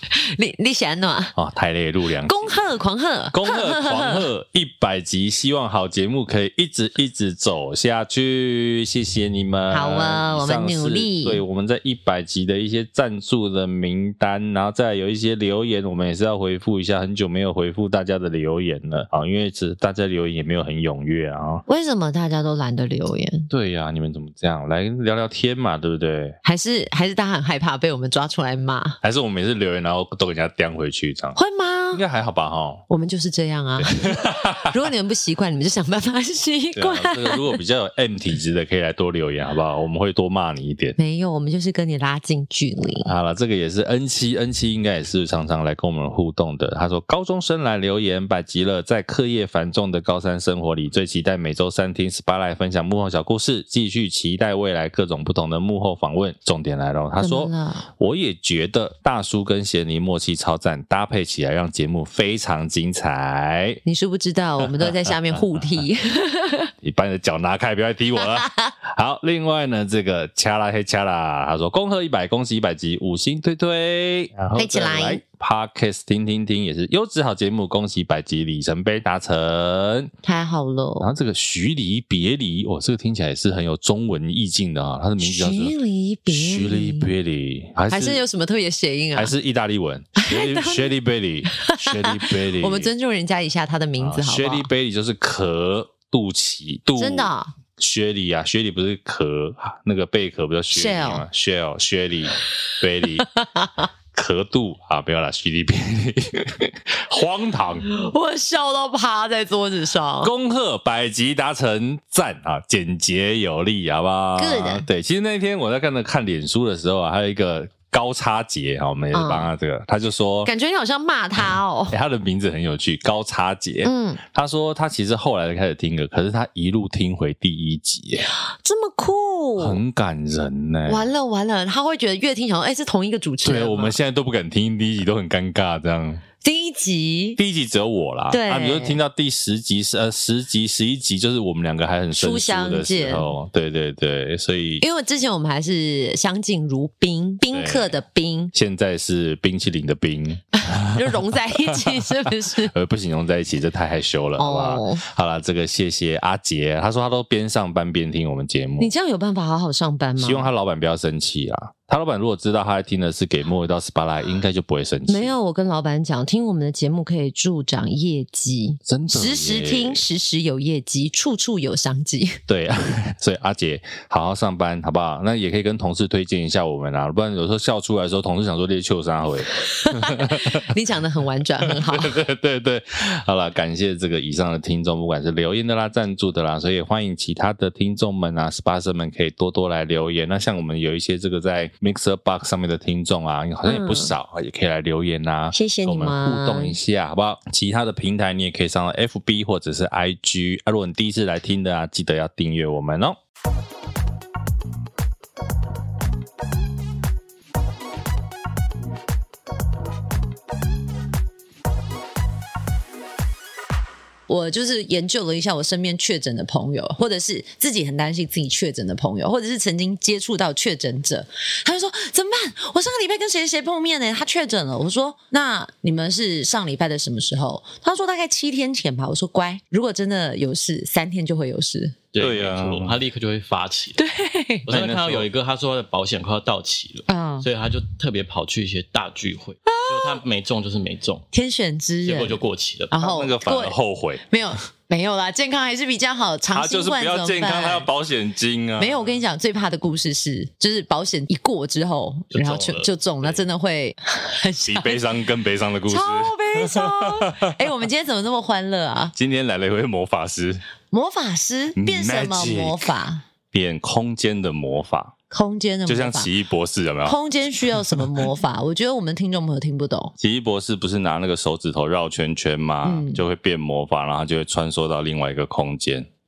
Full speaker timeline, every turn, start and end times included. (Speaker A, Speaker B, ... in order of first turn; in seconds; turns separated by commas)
Speaker A: 0.1-1.3, Speaker B: 1.4-2.6, Speaker A: 2.2-4.3, Speaker B: 3.3-21.6, Speaker A: 9.7-11.4, Speaker A: 21.7-23.5, Speaker B: 23.5-26.4, Speaker A: 26.4-29.0, Speaker B: 29.0-31.4, Speaker A: 31.4-32.0, Speaker B: 31.9-32.8, Speaker A: 32.9-37.6, Speaker B: 33.8-34.8, Speaker B: 36.7-41.0, Speaker A: 41.0-43.1, Speaker B: 43.0-63.8, Speaker A: 57.2-57.9, Speaker A: 63.8-66.7, Speaker B: 64.6-65.4, Speaker B: 66.8-80.1, Speaker A: 68.3-68.7, Speaker A: 74.5-75.2, Speaker A: 80.2-81.1, Speaker B: 81.0-85.7, Speaker A: 85.2-87.1, Speaker B: 86.3-88.2, Speaker A: 87.9-89.3, Speaker B: 89.1-92.9, Speaker A: 90.2-90.9, Speaker A: 91.5-94.7, Speaker B: 94.0-103.3, Speaker A: 97.0-97.5, Speaker A: 100.7-101.2, Speaker A: 103.3-103.8, Speaker B: 104.1-107.9, Speaker A: 107.8-110.3, Speaker B: 110.2-120.5, Speaker A: 114.4-114.9, Speaker A: 119.1-119.5, Speaker A: 120.4-122.0, Speaker B: 121.9-128.2, Speaker A: 123.8-124.2, Speaker A: 128.2-129.8, Speaker B: 129.6-131.1, Speaker A: 130.9-134.0, Speaker B: 133.4-136.2, Speaker A: 136.4-137.4, Speaker B: 137.4-144.8, Speaker A: 138.3-139.0, Speaker A: 142.1-143.3, Speaker A: 144.8-148.5, Speaker B: 147.5-148.0, Speaker B: 148.5-158.9, Speaker A: 150.5-152.7, Speaker A: 154.4-155.0, Speaker A: 158.8-160.5, Speaker B: 160.2-165.3, Speaker A: 165.1-172.4, Speaker B: 168.8-170.0, Speaker B: 172.5-180.7, Speaker A: 179.6-182.2, Speaker B: 181.6-203.2, Speaker A: 193.6-194.1, Speaker A: 195.5-196.8, Speaker A: 214.3-232.0, Speaker C: 232.1-234.0, Speaker B: 232.2-233.0, Speaker A: 234.0-234.7, Speaker C: 234.7-241.2, Speaker B: 234.7-235.3, Speaker A: 237.1-237.5, Speaker A: 239.7-240.2, Speaker A: 241.3-242.4, Speaker C: 242.0-242.9, Speaker A: 242.9-243.8, Speaker B: 243.0-244.2, Speaker A: 244.3-247.9, Speaker B: 246.5-248.9, Speaker A: 248.8-255.0, Speaker C: 252.3-253.4, Speaker B: 254.7-257.5, Speaker A: 255.8-259.1, Speaker B: 259.1-260.6, Speaker A: 260.9-263.2, Speaker B: 261.8-262.8, Speaker B: 263.5-265.1, Speaker A: 265.3-266.3, Speaker B: 265.9-268.1, Speaker A: 267.0-270.1, Speaker B: 270.2-276.1, Speaker A: 272.8-273.2